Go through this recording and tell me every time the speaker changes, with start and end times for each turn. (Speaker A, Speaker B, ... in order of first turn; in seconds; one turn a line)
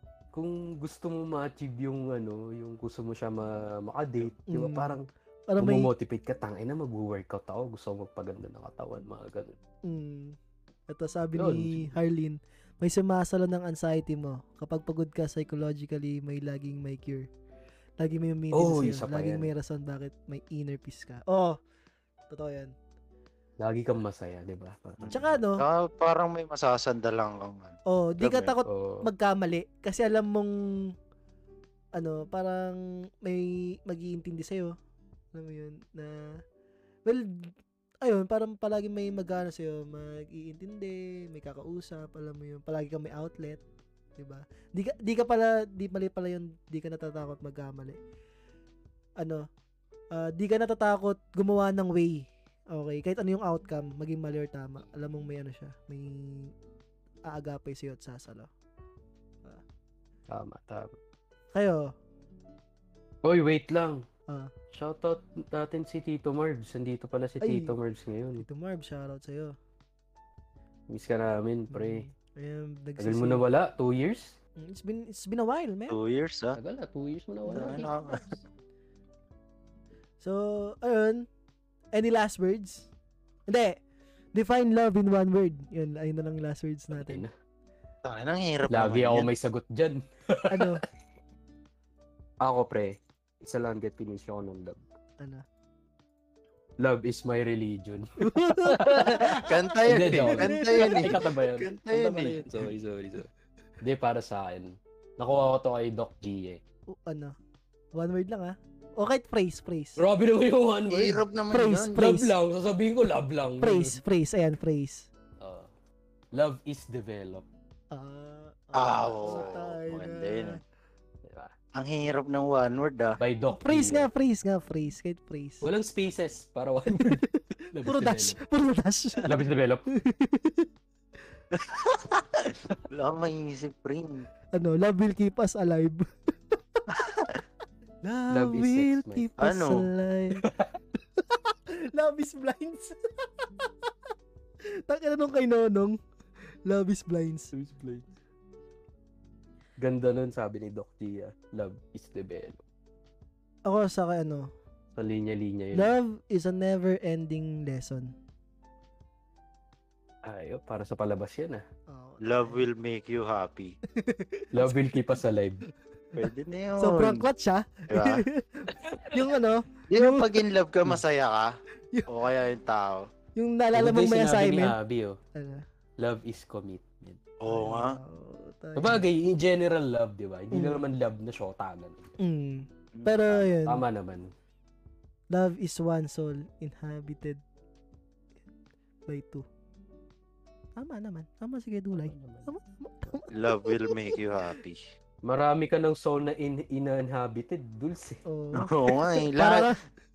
Speaker A: 0.3-5.0
Speaker B: 4.5-5.0
Speaker B: 5.5-5.9
Speaker A: 5.6-9.6
Speaker B: 9.8-10.4
Speaker B: 10.9-17.3
Speaker A: 11.3-11.9
Speaker B: 18.0-21.6
Speaker A: 18.5-19.5
Speaker B: 22.3-22.7
Speaker A: 23.6-25.2
Speaker C: 25.0-28.5
Speaker B: 25.1-25.6
Speaker B: 27.9-30.9
Speaker A: 28.6-29.1
Speaker B: 31.9-34.7
Speaker B: 35.3-36.4
Speaker B: 37.0-43.6
Speaker B: 44.2-48.0
Speaker B: 49.2-49.5
Speaker B: 50.1-56.5
Speaker B: 57.3-58.5
Speaker A: 60.3-61.0
Speaker B: 61.5-61.9
Speaker A: 63.2-64.0
Speaker A: 64.7-68.4
Speaker B: 67.4-67.7
Speaker B: 68.4-69.5
Speaker A: 70.9-72.0
Speaker B: 71.7-73.5
Speaker A: 73.0-74.4
Speaker B: 74.6-76.0
Speaker C: 75.9-76.6
Speaker A: 76.5-77.9
Speaker B: 77.5-78.2
Speaker C: 77.5-78.4
Speaker B: 80.2-81.3
Speaker B: 81.9-82.9
Speaker B: 83.5-83.8
Speaker B: 84.3-87.2
Speaker A: 86.9-87.3
Speaker C: 88.0-89.3
Speaker A: 88.7-90.8
Speaker B: 90.5-90.8
Speaker A: 92.4-94.8
Speaker A: 96.8-103.3
Speaker B: 98.2-101.1
Speaker C: 98.9-102.7
Speaker A: 103.8-106.6
Speaker B: 106.9-107.3
Speaker B: 107.9-110.0
Speaker A: 110.0-111.2
Speaker C: 110.9-112.0
Speaker B: 111.5-112.3
Speaker A: 111.9-114.0
Speaker B: 113.6-115.1
Speaker A: 115.4-115.7
Speaker A: 116.3-117.5
Speaker B: 117.9-120.6
Speaker C: 118.7-120.6
Speaker A: 119.2-119.5
Speaker A: 121.2-121.5
Speaker C: 121.8-123.2
Speaker A: 123.2-124.1
Speaker B: 123.5-125.7
Speaker A: 125.6-128.4
Speaker B: 126.9-129.4
Speaker A: 129.2-129.9
Speaker B: 129.9-130.7
Speaker C: 131.5-134.3
Speaker B: 134.5-136.8
Speaker C: 136.9-137.4
Speaker B: 138.0-140.4
Speaker A: 138.3-139.3
Speaker C: 139.4-139.8
Speaker A: 140.4-140.7
Speaker B: 141.2-143.3
Speaker B: 144.9-146.0
Speaker B: 146.6-147.5
Speaker A: 147.5-148.1
Speaker A: 149.8-152.6
Speaker B: 153.7-154.5
Speaker A: 154.9-155.9
Speaker B: 155.7-158.1
Speaker A: 160.2-161.6
Speaker B: 161.9-162.6
Speaker C: 162.2-163.8
Speaker B: 163.9-164.8
Speaker A: 164.5-165.6
Speaker C: 166.2-167.2
Speaker B: 166.8-170.4
Speaker C: 167.9-168.2
Speaker A: 168.9-169.3
Speaker C: 169.9-171.6
Speaker C: 172.1-173.1
Speaker B: 173.3-174.8
Speaker A: 173.7-175.2
Speaker B: 175.3-175.6
Speaker A: 176.0-177.2
Speaker C: 177.4-178.0
Speaker B: 177.4-179.1
Speaker A: 178.8-182.1
Speaker B: 180.5-180.8
Speaker B: 182.2-183.8
Speaker C: 182.9-183.4
Speaker A: 183.4-184.3
Speaker B: 185.3-187.4
Speaker B: 189.1-189.4
Speaker B: 190.8-194.2
Speaker A: 191.9-192.5
Speaker C: 193.3-194.9
Speaker A: 195.2-198.2
Speaker B: 198.2-199.8
Speaker C: 198.5-199.7